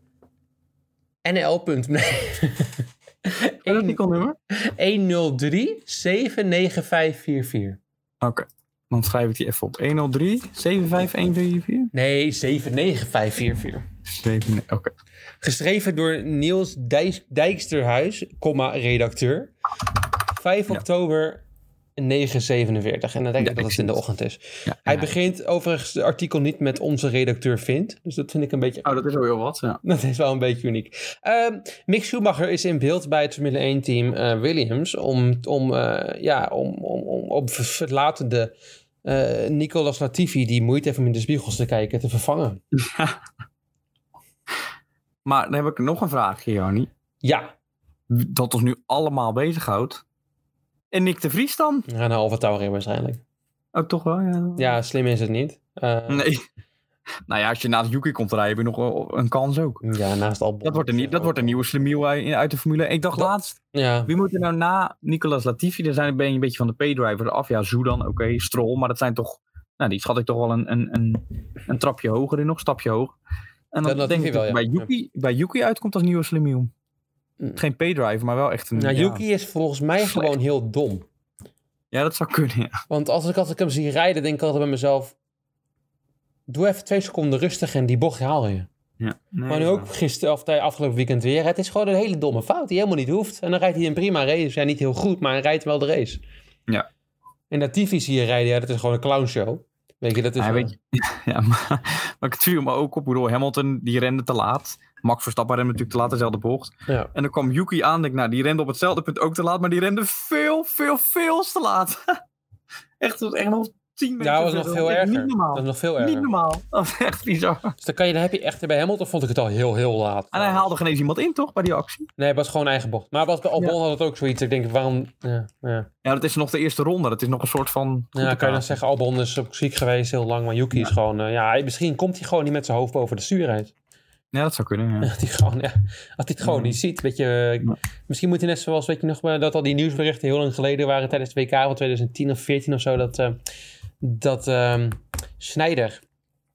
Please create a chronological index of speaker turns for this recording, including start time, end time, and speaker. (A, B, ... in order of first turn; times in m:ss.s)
0:01.2-0:04.0 A
0:03.6-0:04.4 B
0:04.5-0:07.8 A
0:08.2-0:11.9 B
0:11.9-0:13.8 A
0:14.1-0:14.9 B
0:15.4-0:19.5 A
0:20.3-0:21.4 A
0:22.0-0:29.0 A
0:23.4-0:24.0 B
0:24.6-0:25.1 B
0:28.8-0:29.8 B
0:29.8-0:42.6 A
0:42.7-0:43.2 B
0:45.2-0:46.9 B
0:47.2-0:47.5 A
0:48.1-0:50.0 B
0:50.9-0:51.8 B
0:51.9-0:53.2 A
0:53.7-0:54.8 B
0:54.6-0:56.3 A
0:56.1-0:56.4 B
0:57.3-0:59.8 B
0:59.8-1:01.5 A
1:00.6-1:13.1 B
1:03.1-1:04.1 A
1:13.7-1:16.7 B
1:13.8-1:14.9 A
1:17.6-1:19.2 B
1:18.7-1:21.0 A
1:20.0-1:20.3 B
1:21.9-1:22.8 B
1:22.9-1:25.1 A
1:26.5-1:28.7 A
1:29.0-1:29.9 B
1:29.5-1:36.2 A
1:37.5-1:40.7 A
1:40.4-1:52.2 B
1:46.9-1:47.1 A
1:53.0-1:57.8 B
1:54.2-1:56.3 A
1:57.8-2:00.7 A
2:00.3-2:02.1 B
2:02.2-2:05.9 A
2:06.0-2:08.8 B
2:08.1-2:13.7 A
2:14.3-2:15.1 B
2:15.0-2:23.4 A
2:16.4-2:16.8 B
2:24.0-2:26.0 A